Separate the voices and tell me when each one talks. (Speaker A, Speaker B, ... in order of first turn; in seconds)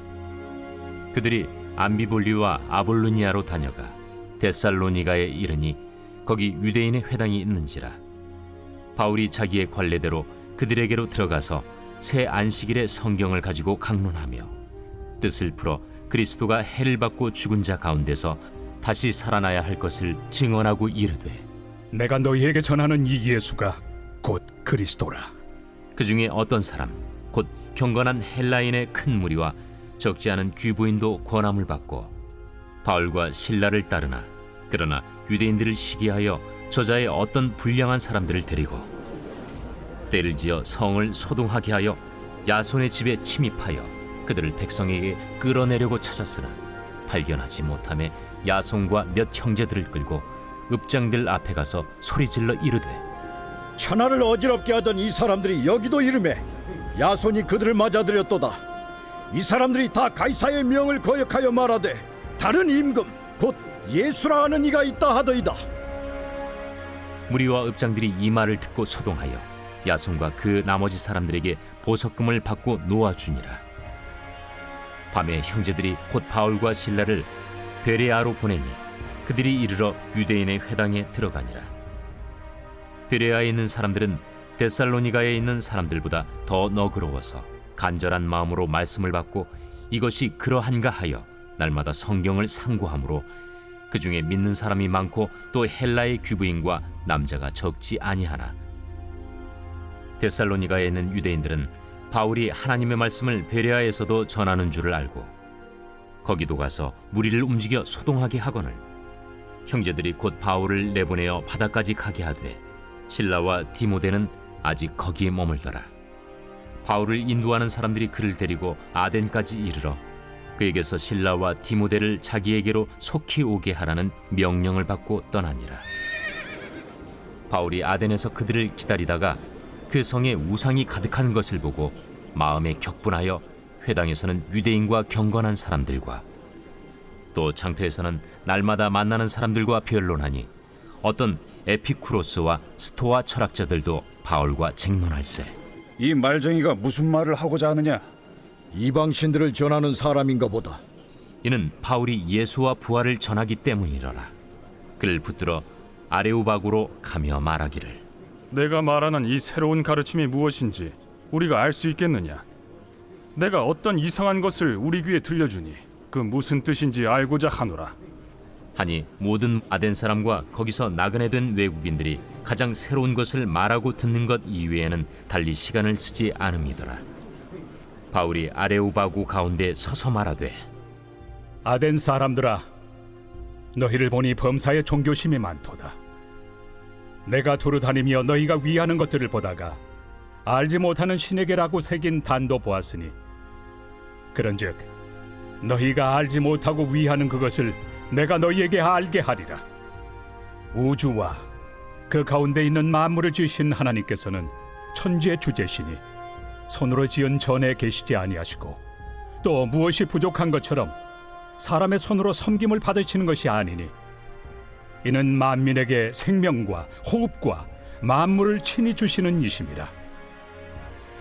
Speaker A: 1.1-8.0, 8.9-14.5, 15.2-21.5, 25.9-32.1, 32.8-38.9, 40.1-53.0, 67.3-73.6, 75.1-77.3, 77.8-81.7, 83.1-93.3, 93.9-98.6, 100.2-105.3, 106.2-108.8, 109.7-115.9, 116.8-120.0, 120.6-125.9, 127.5-136.2, 137.3-140.5, 141.0-145.5, 151.4-154.3, 155.0-158.0, 168.8-177.0, 178.1-180.6
Speaker B: 21.9-25.3, 181.7-182.7, 183.8-186.0, 187.3-189.8, 190.5-193.1, 194.3-194.9, 195.6-199.6, 200.7-201.4, 202.1-206.0, 206.7-208.8, 209.4-210.9, 211.6-213.9, 215.0-219.9
Speaker C: 53.8-56.4, 57.0-58.6, 59.3-65.6, 148.7-150.8
Speaker D: 146.0-148.0
Speaker E: 158.5-162.4, 163.4-167.9